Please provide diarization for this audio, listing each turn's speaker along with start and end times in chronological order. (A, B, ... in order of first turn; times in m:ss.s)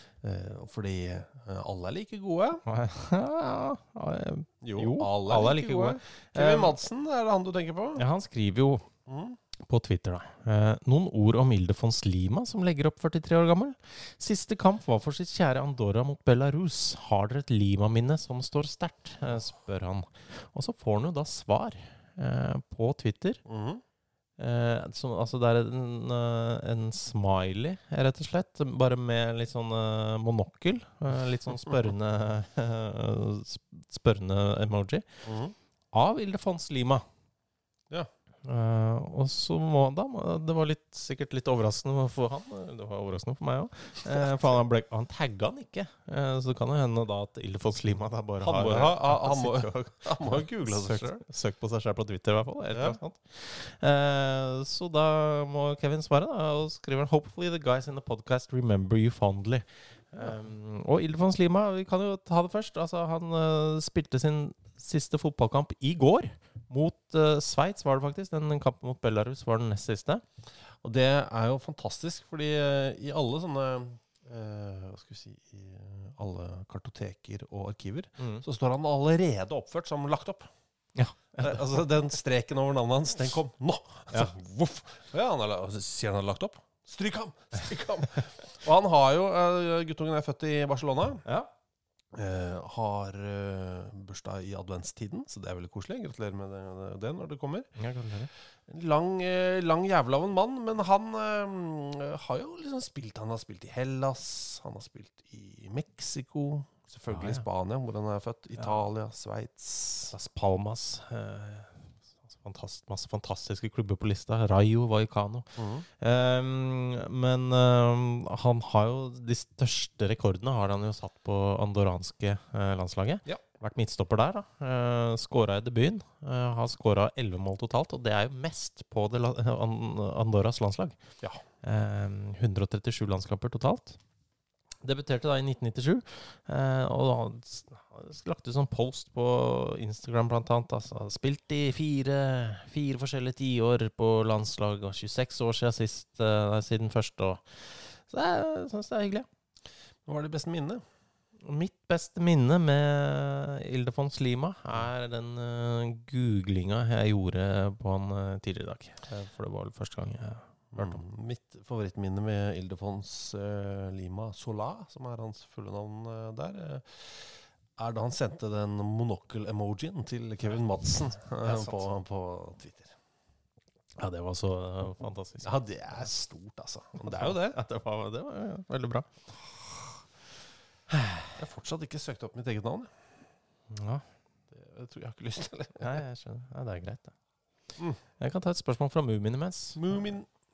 0:00.2-0:02.6 A
0:02.6-0:06.7 B
0:04.6-0:08.0 A
0:08.0-0:08.9 B
0:09.1-0:09.4 A
0:09.6-0:23.4 B
0:23.4-0:23.8 A
0:24.4-0:35.2 B
0:35.2-0:35.5 A
0:35.9-0:37.0 B
0:38.4-1:10.2 B
0:44.0-0:44.6 A
0:48.4-0:51.2 A
0:52.7-0:53.0 A
1:10.8-1:20.5 A
1:18.2-1:18.4 B
1:21.0-1:21.6 B
1:21.4-1:31.2 A
1:32.1-1:37.7 A
1:37.8-1:38.3 B
1:38.7-1:50.1 A
1:47.1-1:47.4 B
1:50.1-2:11.0 B
1:55.6-1:55.8 A
2:11.6-2:14.0 B
2:14.8-2:29.3 B
2:30.0-2:30.8 A
2:31.4-2:41.0 B
2:40.7-2:52.9 A
2:51.4-2:51.8 B
2:54.0-2:56.1 B
2:55.4-2:57.6 A
2:57.0-2:59.1 B
3:00.9-3:01.3 B
3:01.4-3:02.9 A
3:03.7-3:04.0 B
3:04.5-3:06.0 A
3:05.8-3:07.1 B
3:08.2-3:09.8 B
3:09.8-3:10.3 A